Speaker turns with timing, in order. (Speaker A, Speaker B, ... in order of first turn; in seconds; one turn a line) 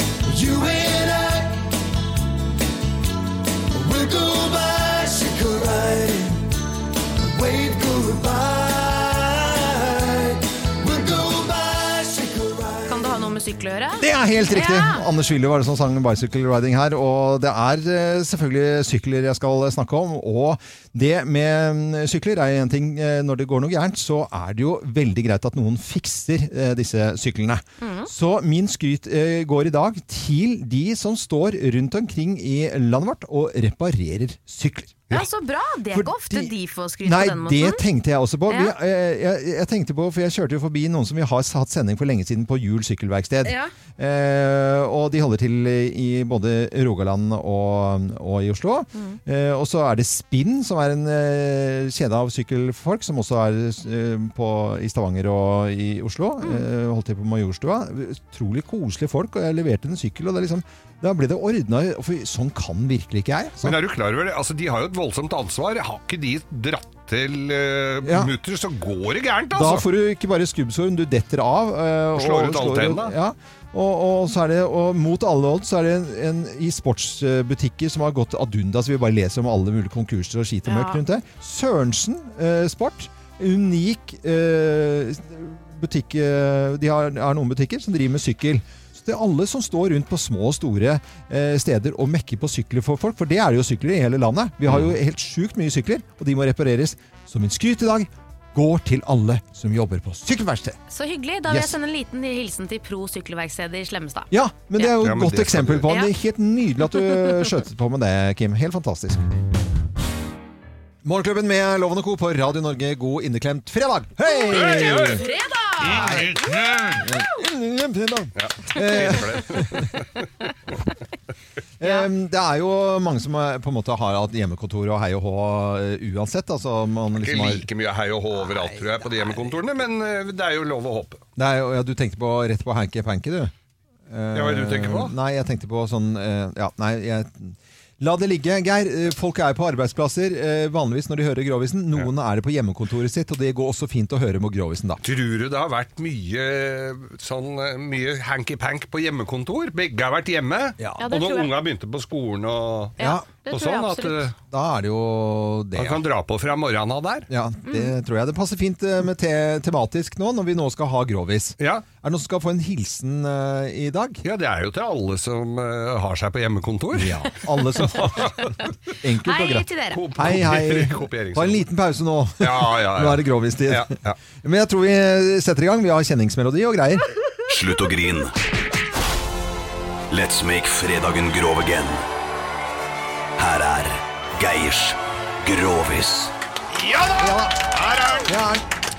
Speaker A: 0.2-1.7
Speaker A: 3.7-6.5
Speaker A: 7.2-13.2
Speaker B: 12.9-15.0
Speaker C: 14.0-35.1
Speaker B: 27.8-28.1
Speaker B: 35.1-37.8
Speaker C: 35.9-63.8
Speaker B: 38.5-38.7
Speaker B: 43.4-43.7
Speaker B: 48.9-49.2
Speaker B: 56.4-56.6
Speaker D: 63.6-69.9
Speaker C: 68.0-68.3
Speaker C: 69.5-100.8
Speaker D: 72.2-73.1
Speaker B: 80.7-81.0
Speaker B: 100.9-105.0
Speaker C: 101.5-101.8
Speaker C: 104.3-109.2
Speaker D: 105.0-105.9
Speaker C: 111.0-115.2
Speaker D: 114.5-115.3
Speaker B: 114.7-116.4
Speaker D: 115.8-116.3
Speaker C: 115.8-119.9
Speaker D: 118.4-120.3
Speaker C: 121.8-127.7
Speaker B: 121.8-122.1
Speaker D: 127.2-131.2
Speaker C: 131.4-133.5
Speaker C: 134.1-145.0
Speaker D: 134.3-135.1
Speaker D: 145.0-154.3
Speaker C: 150.8-151.1
Speaker B: 151.0-151.5
Speaker C: 153.0-153.2
Speaker B: 153.0-154.3
Speaker C: 154.5-156.0
Speaker D: 155.8-157.3
Speaker C: 157.3-164.2
Speaker B: 157.6-157.9
Speaker D: 161.6-161.9
Speaker D: 164.2-168.6
Speaker C: 166.9-168.5
Speaker C: 169.0-177.1
Speaker B: 169.2-170.2
Speaker D: 169.9-171.6
Speaker D: 172.4-174.2
Speaker E: 177.5-178.3
Speaker E: 180.1-182.0
Speaker E: 183.4-186.3
Speaker D: 186.7-188.3
Speaker C: 187.2-187.7
Speaker C: 188.3-188.6